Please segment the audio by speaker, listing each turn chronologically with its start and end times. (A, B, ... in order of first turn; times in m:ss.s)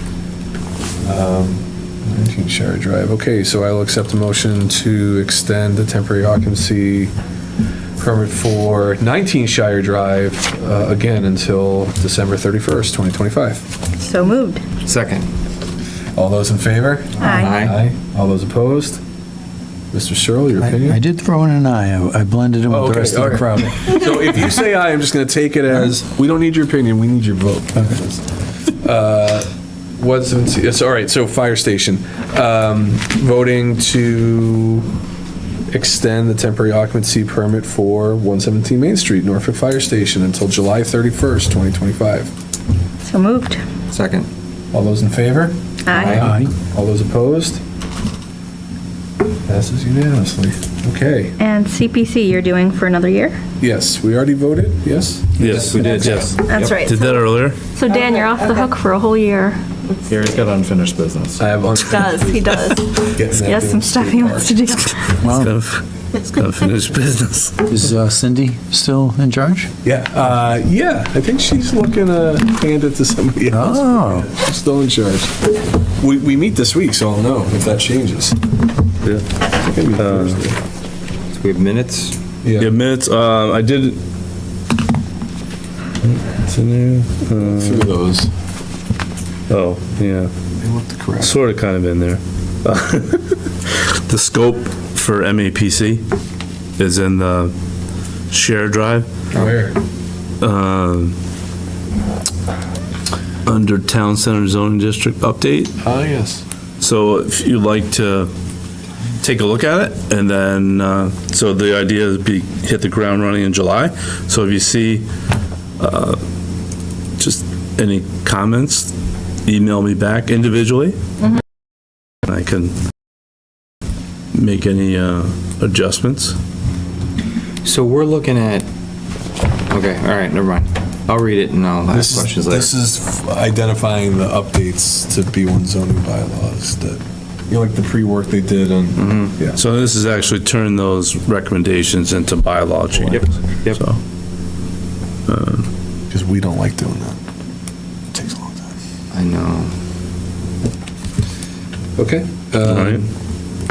0:01.0-0:07.1 A
0:08.0-0:13.7 A
0:14.0-0:14.6 B
0:14.8-0:15.3 C
0:16.2-0:19.0 A
0:17.2-0:17.6 B
0:17.3-0:17.8 C
0:19.9-0:21.0 A
0:20.6-0:23.9 D
0:22.7-0:28.2 A
0:28.8-0:29.5 A
0:30.0-0:34.9 A
0:35.7-0:42.3 A
0:43.1-0:43.6 B
0:43.9-0:44.3 C
0:44.7-0:47.6 A
0:45.9-0:46.2 B
0:45.9-0:46.4 C
0:46.0-0:46.5 D
0:49.5-0:51.4 A
0:51.4-0:53.4 B
0:53.6-0:55.3 A
0:55.4-0:56.8 C
0:55.4-0:57.6 E
0:56.5-0:57.2 B
0:57.8-0:59.6 B
1:00.1-1:01.4 C
1:01.4-1:04.8 A
1:01.9-1:05.2 B
1:05.2-1:05.5 D
1:05.3-1:07.8 E
1:07.7-1:09.7 D
1:09.8-1:18.4 A
1:13.5-1:14.3 D
1:19.0-1:19.3 E
1:19.6-1:20.6 A
1:19.9-1:20.4 E
1:21.3-1:22.2 C
1:22.4-1:22.7 A
1:22.6-1:24.0 E
1:26.1-1:27.9 E
1:27.4-1:28.3 A
1:29.5-1:30.3 E
1:30.6-1:31.4 A
1:31.2-1:36.0 E
1:36.8-1:37.5 E
1:38.3-1:39.1 E
1:39.3-1:39.8 A
1:40.4-1:41.2 E
1:43.5-1:45.8 E
1:45.8-1:46.4 A
1:46.8-1:48.3 E
1:49.2-1:55.1 E
1:55.8-1:56.2 E
1:57.2-1:58.9 E
1:59.5-2:01.0 E
2:02.3-2:02.7 E
2:04.3-2:06.4 E
2:07.6-2:08.7 C
2:09.7-2:12.7 C
2:11.9-2:19.6 A
2:19.0-2:19.4 C
2:19.6-2:24.0 E
2:23.1-2:23.8 C
2:25.3-2:25.7 E
2:26.1-2:27.2 A
2:28.1-2:28.7 A
2:29.1-2:29.7 C
2:32.0-2:33.1 A
2:32.6-2:33.1 E